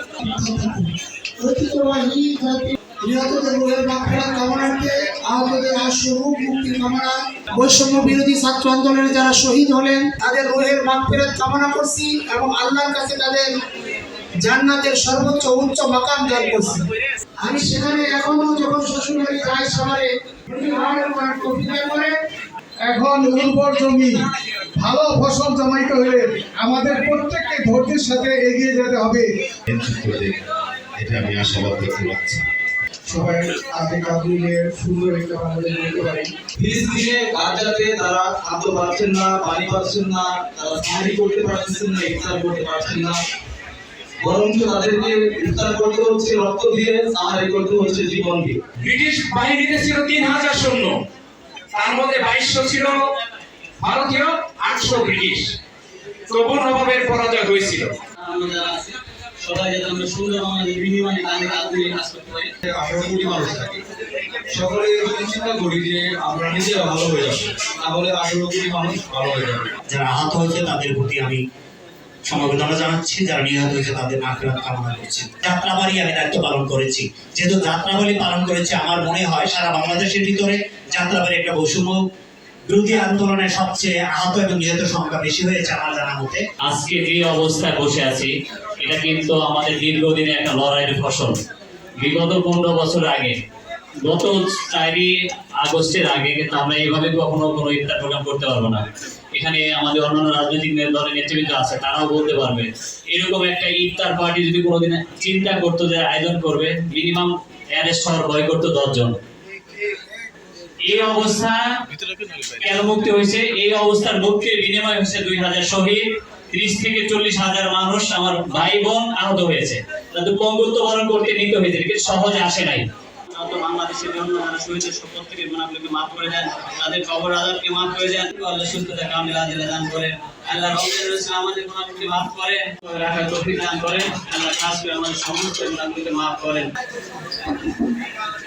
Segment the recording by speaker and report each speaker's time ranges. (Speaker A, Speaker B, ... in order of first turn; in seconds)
Speaker A: 0.2-13.5, 14.4-16.8, 17.4-22.1
Speaker B: 22.9-24.3, 24.8-29.2, 35.3-35.7
Speaker C: 29.7-32.5, 112.0-112.5
Speaker D: 33.1-43.2, 44.2-48.6, 62.6-63.8, 64.5-69.7
Speaker E: 48.7-51.0, 51.7-53.1, 53.8-55.6, 56.3-57.9
Speaker F: 58.2-62.5, 86.6-91.4, 92.0-93.4, 94.0-109.1, 110.8-111.6, 112.5-136.7
Speaker G: 69.9-71.4, 72.2-82.0, 82.7-86.4